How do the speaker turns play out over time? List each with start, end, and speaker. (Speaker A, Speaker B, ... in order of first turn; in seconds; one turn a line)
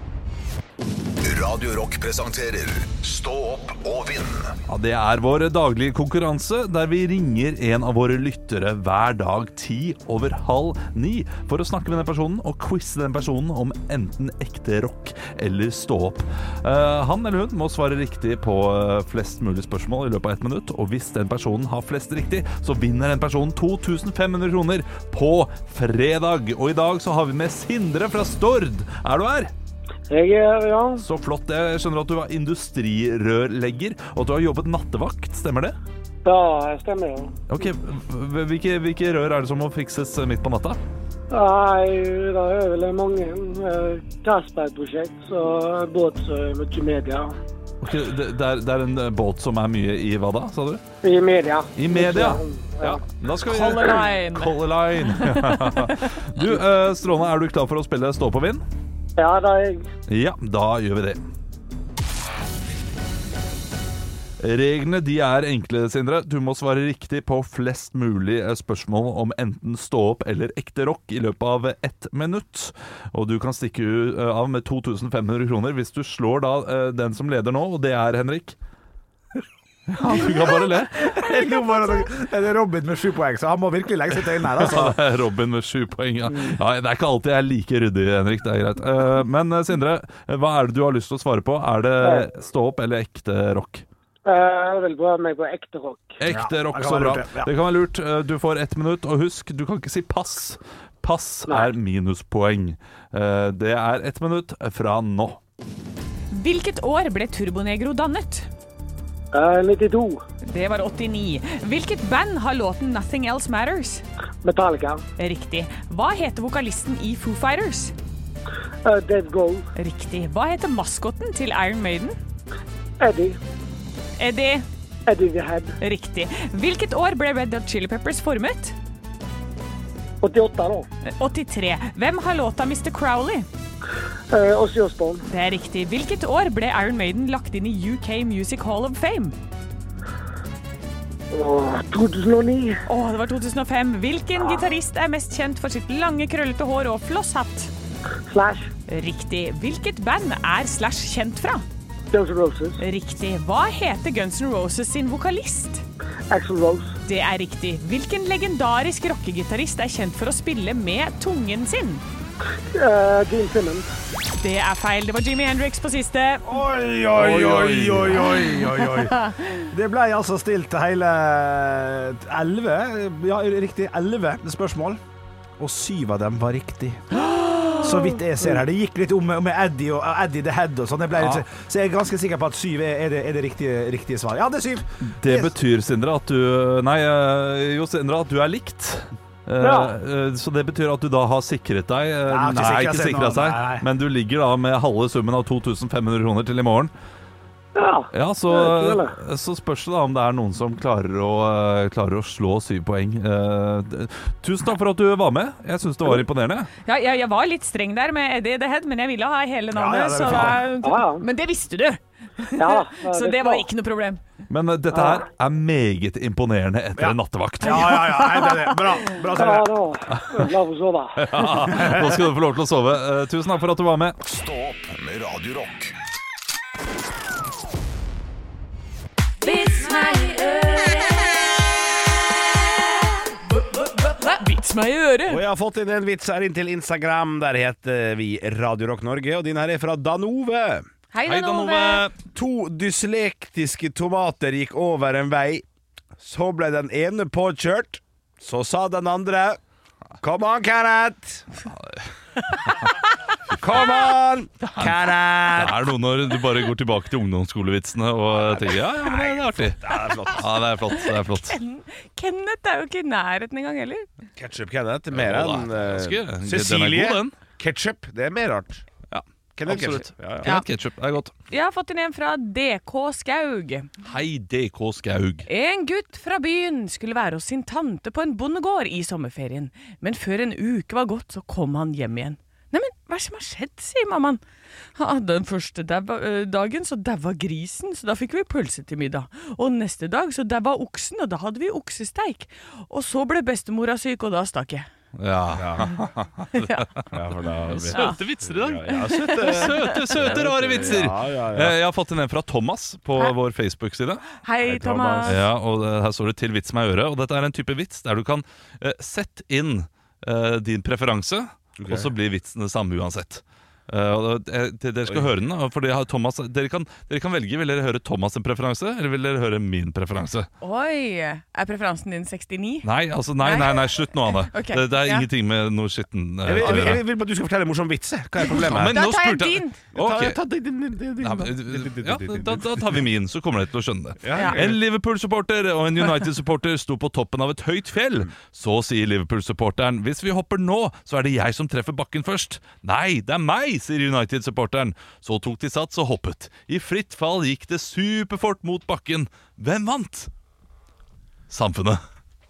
Speaker A: 1.2-4.5
Speaker B: 4.7-29.5
Speaker C: 30.1-31.0
Speaker B: 31.0-35.8
Speaker C: 36.2-37.4
Speaker B: 37.5-40.8
Speaker C: 41.3-47.3
Speaker B: 47.8-50.8
Speaker C: 51.0-53.0
Speaker B: 51.8-58.6
Speaker D: 53.5-54.6
Speaker D: 55.1-56.2
Speaker C: 59.2-59.9
Speaker B: 60.1-61.2
Speaker B: 64.4-78.5
Speaker B: 79.9-81.1
Speaker E: 81.0-85.0
Speaker D: 81.2-81.8
Speaker B: 84.4-93.8
Speaker C: 92.0-92.3
Speaker C: 94.2-96.2
Speaker B: 96.2-105.4
Speaker E: 96.2-97.5
Speaker D: 106.3-108.5
Speaker C: 109.3-110.2
Speaker D: 110.4-114.0
Speaker C: 114.4-115.0
Speaker D: 115.2-117.9
Speaker C: 118.8-119.7
Speaker D: 119.8-122.2
Speaker C: 123.0-123.4
Speaker D: 124.2-124.7
Speaker C: 125.0-125.8
Speaker D: 125.8-128.7
Speaker C: 130.2-130.9
Speaker D: 131.1-133.5
Speaker C: 134.3-135.2
Speaker D: 135.2-139.3
Speaker C: 141.3-142.8
Speaker D: 142.9-147.7
Speaker C: 144.4-144.7
Speaker C: 148.2-148.7
Speaker D: 148.9-151.6
Speaker C: 152.1-152.8
Speaker D: 152.8-155.8
Speaker C: 156.3-157.0
Speaker D: 157.0-162.0
Speaker C: 162.7-163.9
Speaker D: 164.4-166.4
Speaker E: 166.4-169.2
Speaker B: 167.2-168.6
Speaker D: 168.6-169.6
Speaker E: 169.7-175.0
Speaker E: 175.6-177.2
Speaker D: 177.1-178.2
Speaker E: 177.8-185.5
Speaker B: 181.2-181.4
Speaker B: 185.0-196.9
Speaker C: 189.6-189.9
Speaker E: 192.3-193.9
Speaker C: 197.7-199.1
Speaker B: 198.1-206.7
Speaker D: 206.8-214.2
Speaker E: 209.7-210.6
Speaker C: 210.8-211.2
Speaker C: 212.6-213.7
Speaker B: 214.5-218.2
Speaker C: 214.9-215.2
Speaker E: 216.9-219.7
Speaker D: 217.6-218.9
Speaker C: 219.2-221.5
Speaker B: 220.2-220.4
Speaker B: 221.2-224.2
Speaker E: 221.7-222.0
Speaker A: 224.2-225.9
Speaker D: 229.4-231.4
Speaker D: 233.8-235.4
Speaker E: 235.3-240.9
Speaker D: 241.1-242.1
Speaker B: 241.2-242.2
Speaker E: 242.3-245.7
Speaker E: 246.2-249.6
Speaker E: 250.2-251.5
Speaker B: 251.7-252.1
Speaker E: 253.5-255.9
Speaker B: 254.6-261.6
Speaker E: 258.3-260.6
Speaker D: 261.0-264.1
Speaker E: 264.4-268.8
Speaker B: 265.1-267.4
Speaker B: 269.1-271.3
Speaker E: 269.6-270.5
Speaker D: 271.5-273.9
Speaker B: 274.0-275.5
Speaker D: 275.4-284.4
Speaker D: 284.9-294.9
Speaker B: 295.1-297.1
Speaker E: 295.5-295.9
Speaker D: 296.6-296.9
Speaker E: 297.1-301.8
Speaker B: 297.7-304.3
Speaker D: 297.9-298.2
Speaker D: 299.0-300.2
Speaker D: 304.4-305.4
Speaker E: 304.6-305.4
Speaker B: 305.2-320.5
Speaker E: 311.8-312.1
Speaker D: 320.6-322.9
Speaker B: 322.8-327.0
Speaker D: 323.4-325.3
Speaker E: 326.4-329.0
Speaker D: 326.6-327.0
Speaker B: 328.4-330.4
Speaker D: 328.5-329.8
Speaker E: 329.9-333.0
Speaker B: 331.2-350.3
Speaker E: 334.2-334.8
Speaker D: 334.3-334.6
Speaker B: 351.5-352.0